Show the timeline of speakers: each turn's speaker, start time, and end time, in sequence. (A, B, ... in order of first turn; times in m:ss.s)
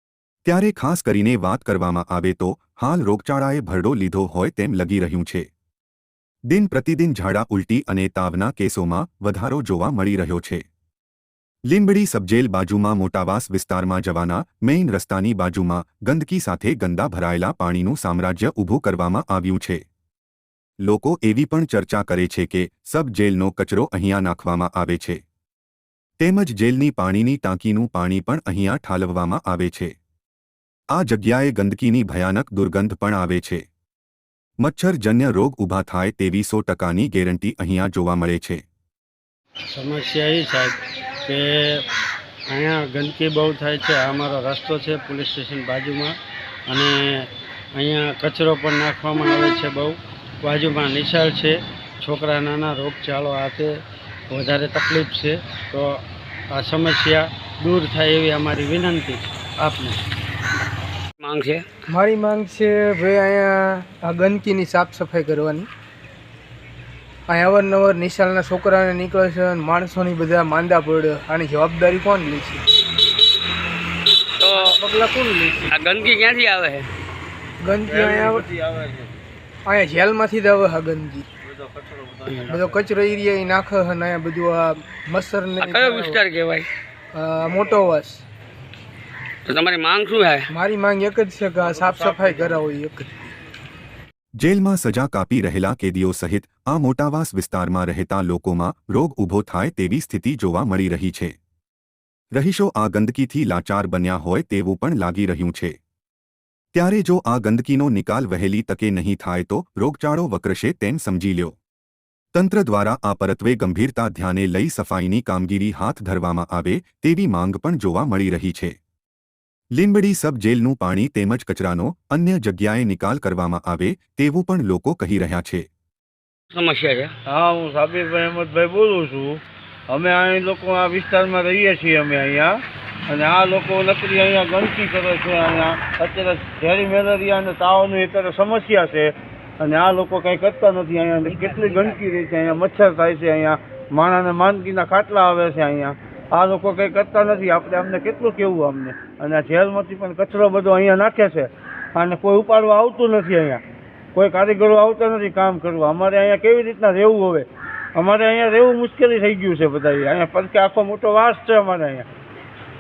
0:00.4-0:05.5 A
0:06.5-0:10.7 A
0:11.7-0:19.8 A
0:20.8-0:25.2 A
0:26.2-0:30.0 A
0:30.9-0:33.7 A
0:34.6-0:38.6 A
0:39.7-0:41.8 B
0:42.5-0:46.2 B
0:46.7-0:53.8 B
0:54.3-1:00.0 B
1:01.2-1:01.7 C
1:01.9-1:05.7 D
1:07.3-1:12.6 D
1:14.4-1:14.8 C
1:14.7-1:15.7 D
1:15.7-1:16.9 C
1:17.6-1:18.5 D
1:17.8-1:19.1 E
1:19.7-1:21.3 D
1:21.4-1:22.8 E
1:22.5-1:26.2 D
1:25.6-1:26.7 C
1:27.1-1:28.2 D
1:29.4-1:30.5 C
1:30.5-1:33.3 D
1:31.6-1:32.6 E
1:34.4-1:41.4 A
1:42.3-1:45.8 A
1:46.7-1:51.6 A
1:52.3-1:58.8 A
1:59.8-2:05.7 A
2:06.5-2:07.1 C
2:07.3-2:12.6 E
2:13.1-2:33.6 E
2:34.2-2:42.1 E